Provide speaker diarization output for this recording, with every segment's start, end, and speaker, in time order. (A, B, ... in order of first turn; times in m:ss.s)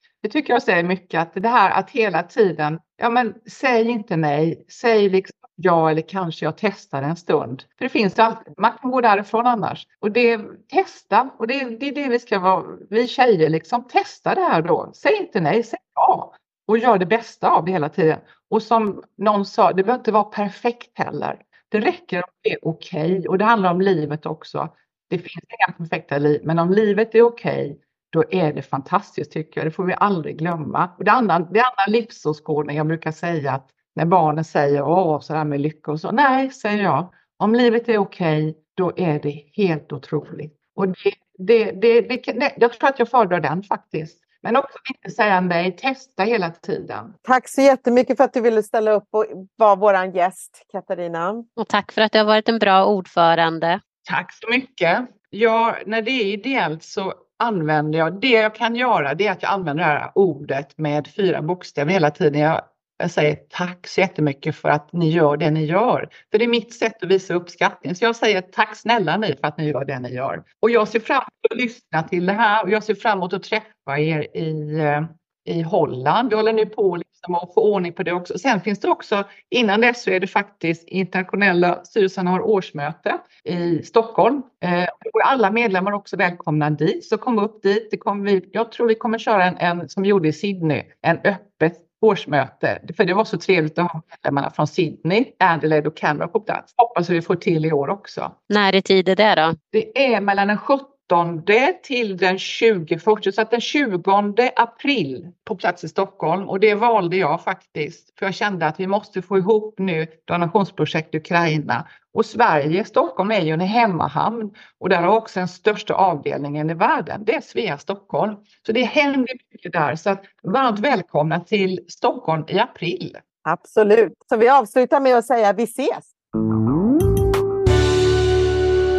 0:00.2-0:47.2 A
0:47.3-0:51.4 B
0:51.6-0:53.8 C
0:54.1-1:38.4 A
1:38.5-1:39.6 C
1:39.7-2:03.2 A
2:03.4-2:06.1 B